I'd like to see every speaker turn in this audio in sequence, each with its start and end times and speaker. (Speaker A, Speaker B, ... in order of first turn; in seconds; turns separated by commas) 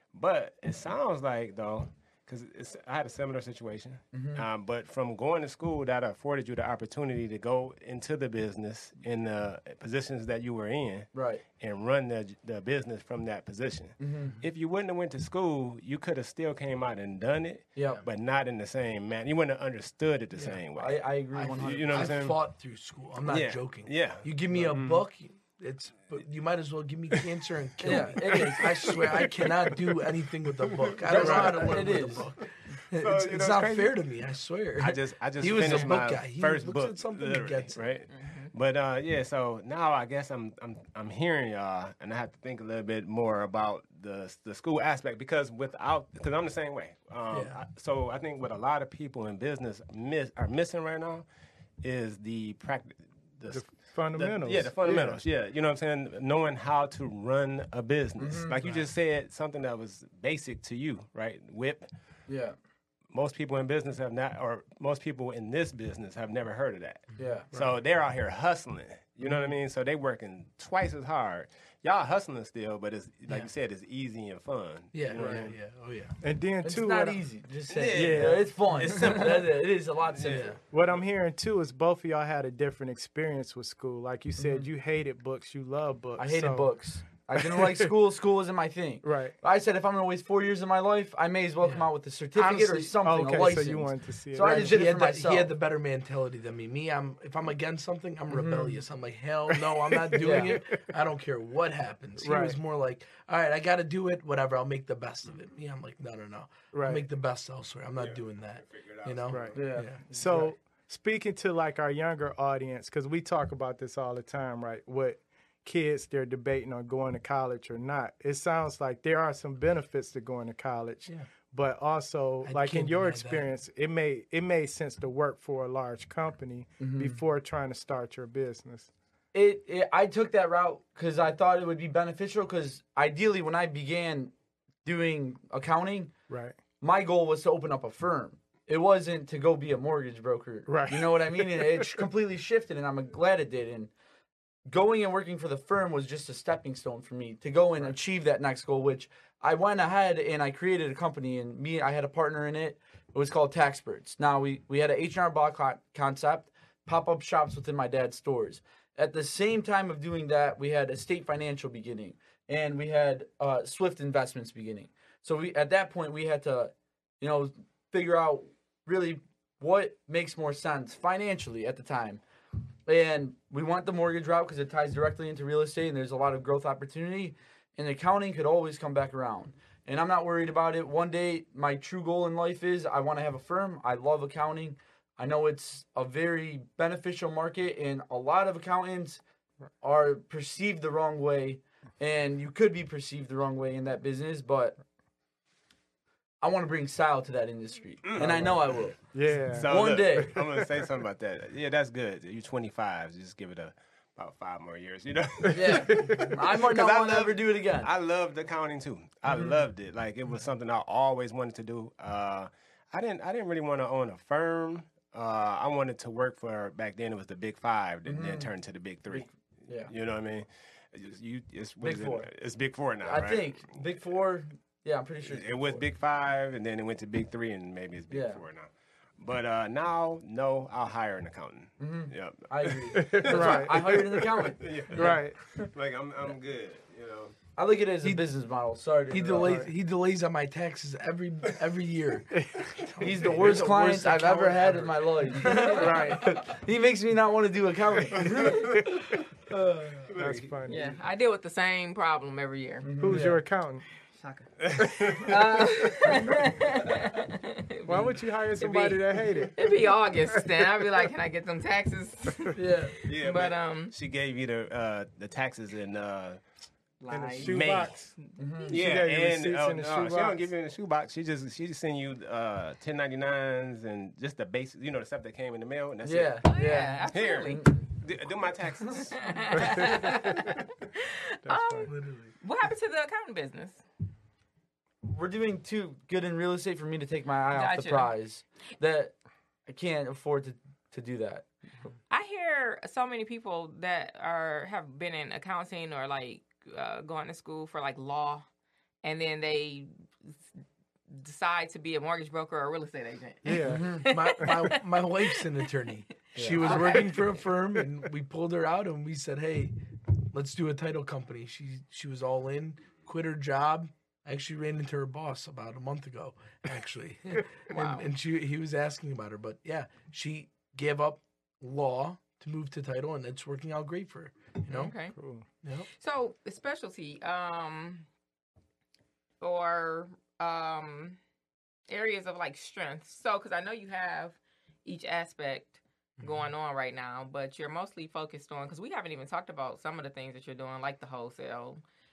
Speaker A: 0.1-22.4, Speaker B: 4.1-4.5, Speaker B: 11.1-11.4, Speaker B: 14.0-14.4, Speaker B: 17.8-18.0, Speaker C: 20.4-20.6, Speaker B: 20.8-22.2, Speaker C: 21.3-37.9, Speaker A: 23.3-25.0, Speaker B: 27.8-29.2, Speaker A: 27.9-30.0, Speaker A: 30.6-32.1, Speaker B: 31.1-32.3, Speaker A: 32.9-34.0, Speaker A: 34.8-51.3, Speaker D: 38.1-38.5, Speaker C: 47.3-47.6, Speaker A: 51.8-61.9, Speaker E: 53.5-55.2, Speaker B: 58.2-58.6, Speaker B: 62.3-62.5, Speaker A: 63.1-75.5, Speaker B: 67.2-67.5, Speaker C: 73.3-73.5, Speaker C: 74.9-76.2, Speaker E: 75.2-75.5, Speaker E: 76.2-77.2, Speaker B: 76.6-80.6, Speaker A: 77.7-79.6, Speaker E: 78.0-78.9, Speaker C: 79.0-79.5, Speaker A: 80.1-80.5, Speaker C: 80.3-80.6, Speaker E: 80.7-86.7, Speaker B: 84.4-84.7, Speaker B: 86.2-95.5, Speaker E: 87.4-87.9, Speaker E: 89.0-89.3, Speaker E: 92.4-94.9, Speaker C: 94.4-110.5, Speaker B: 98.3-98.8, Speaker E: 99.9-100.6, Speaker B: 100.2-100.6, Speaker E: 102.2-102.6, Speaker E: 106.7-107.0, Speaker A: 108.0-109.6, Speaker E: 109.3-128.9, Speaker B: 109.5-110.5, Speaker C: 122.4-123.5, Speaker B: 126.8-127.2, Speaker B: 129.3-134.3, Speaker B: 134.8-136.2, Speaker E: 136.3-136.6, Speaker B: 136.8-143.9, Speaker E: 140.7-141.9, Speaker B: 144.7-172.2, Speaker B: 172.9-189.2, Speaker B: 189.8-194.8, Speaker B: 196.4-200.4, Speaker A: 198.0-223.8, Speaker C: 198.2-198.6, Speaker E: 199.1-200.9, Speaker E: 205.5-206.3, Speaker B: 205.5-207.9, Speaker B: 218.1-218.5, Speaker B: 219.1-219.9, Speaker B: 221.8-222.3, Speaker B: 223.0-225.8, Speaker A: 225.2-237.3, Speaker B: 228.1-228.4, Speaker B: 231.8-235.7, Speaker E: 232.9-234.0, Speaker E: 234.9-235.4, Speaker B: 237.6-239.6, Speaker C: 239.1-246.5, Speaker E: 239.4-239.7, Speaker E: 242.4-242.7, Speaker B: 243.0-250.1, Speaker E: 245.7-246.2, Speaker A: 250.1-251.0, Speaker E: 250.2-250.8, Speaker D: 250.7-252.9, Speaker B: 252.8-253.4, Speaker E: 253.0-253.9, Speaker D: 254.2-263.9, Speaker A: 254.6-256.0, Speaker E: 257.9-259.6, Speaker B: 262.6-263.0, Speaker A: 263.1-266.4, Speaker D: 267.0-268.7, Speaker E: 267.1-270.5, Speaker A: 267.4-268.1, Speaker B: 268.4-268.8, Speaker A: 268.7-280.6, Speaker B: 276.0-277.9, Speaker D: 276.5-277.9, Speaker D: 279.0-283.8, Speaker E: 279.6-280.2, Speaker E: 281.5-281.9, Speaker C: 281.9-282.3, Speaker B: 285.0-291.5, Speaker D: 287.5-288.1, Speaker D: 292.1-298.5, Speaker D: 299.0-300.5, Speaker D: 301.1-304.5, Speaker E: 303.4-304.6, Speaker B: 303.6-304.1, Speaker C: 303.7-324.9, Speaker B: 306.4-307.0, Speaker D: 306.6-307.4, Speaker D: 317.7-318.1, Speaker D: 324.7-325.1, Speaker E: 325.1-325.5, Speaker C: 325.6-325.9, Speaker D: 326.0-328.1, Speaker D: 329.4-331.2, Speaker D: 331.9-341.8